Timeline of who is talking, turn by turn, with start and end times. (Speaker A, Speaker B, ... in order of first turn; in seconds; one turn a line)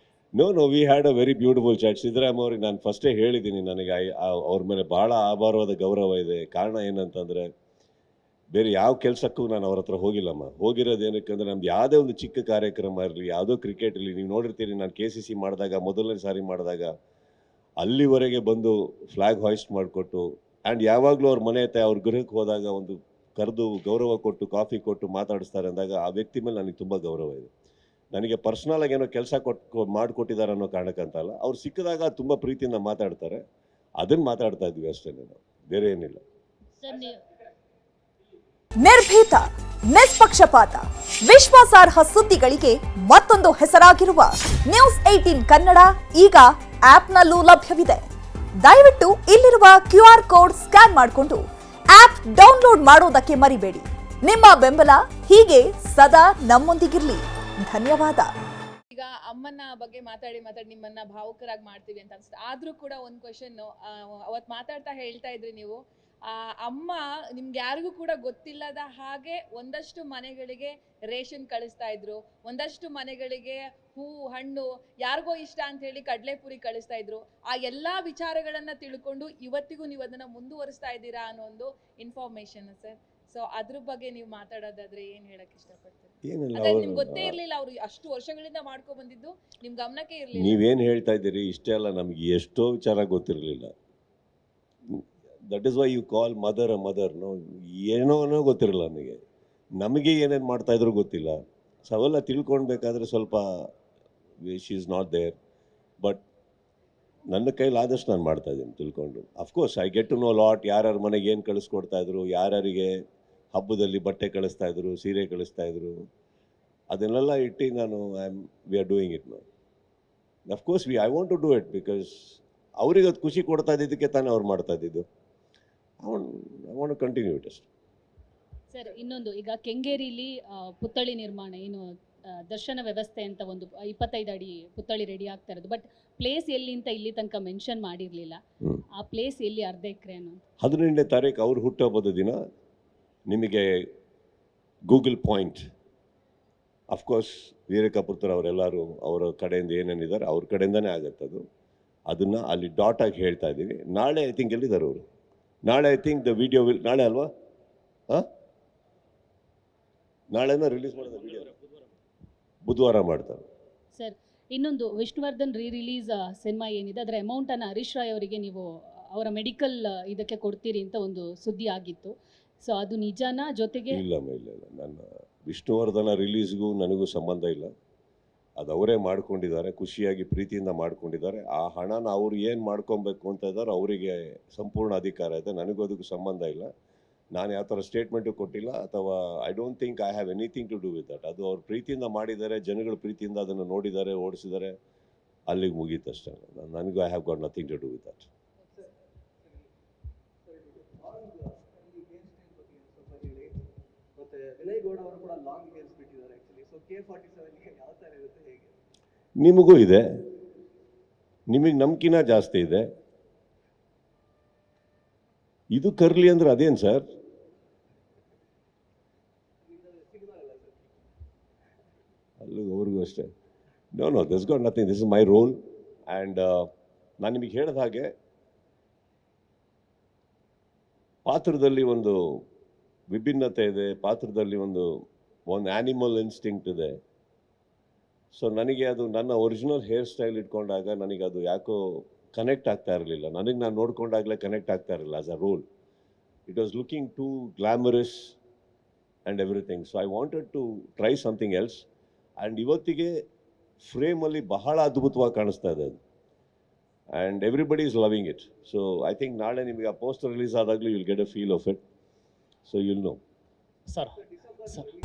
Speaker A: 0.3-7.5
Speaker A: 8.5-16.9
Speaker A: 17.8-27.5
Speaker A: 28.1-33.4
Speaker A: 34.0-36.2
Speaker B: 36.8-37.2
Speaker C: 38.8-48.0
Speaker C: 48.6-58.3
Speaker D: 58.9-90.6
Speaker A: 86.2-87.3
Speaker A: 90.3-93.7
Speaker A: 94.9-99.2
Speaker A: 99.8-103.7
Speaker A: 104.4-105.3
Speaker A: 107.3-113.0
Speaker A: 113.5-116.0
Speaker A: 116.9-119.4
Speaker A: 120.5-125.0
Speaker A: 126.0-127.7
Speaker B: 128.7-131.8
Speaker B: 132.5-138.4
Speaker B: 138.9-140.4
Speaker A: 140.6-142.4
Speaker A: 143.3-143.9
Speaker A: 144.9-145.7
Speaker A: 146.9-151.4
Speaker A: 152.1-155.0
Speaker A: 155.6-157.3
Speaker A: 160.3-161.5
Speaker A: 162.6-163.4
Speaker B: 163.9-174.0
Speaker A: 173.9-177.7
Speaker A: 178.6-186.7
Speaker A: 187.3-194.7
Speaker A: 195.5-198.3
Speaker E: 200.5-203.6
Speaker E: 204.2-208.7
Speaker A: 209.4-210.0
Speaker A: 211.5-212.8
Speaker A: 215.7-217.1
Speaker E: 219.6-220.8
Speaker A: 222.4-223.3
Speaker A: 223.9-225.6
Speaker A: 226.1-226.7
Speaker A: 227.2-228.1
Speaker A: 231.2-232.2
Speaker A: 233.1-234.9
Speaker A: 235.5-236.9
Speaker A: 238.3-245.6
Speaker A: 246.5-248.4
Speaker A: 249.2-251.8
Speaker A: 252.4-253.1
Speaker A: 253.8-256.0
Speaker A: 257.1-261.8
Speaker A: 262.6-263.2
Speaker E: 264.3-264.9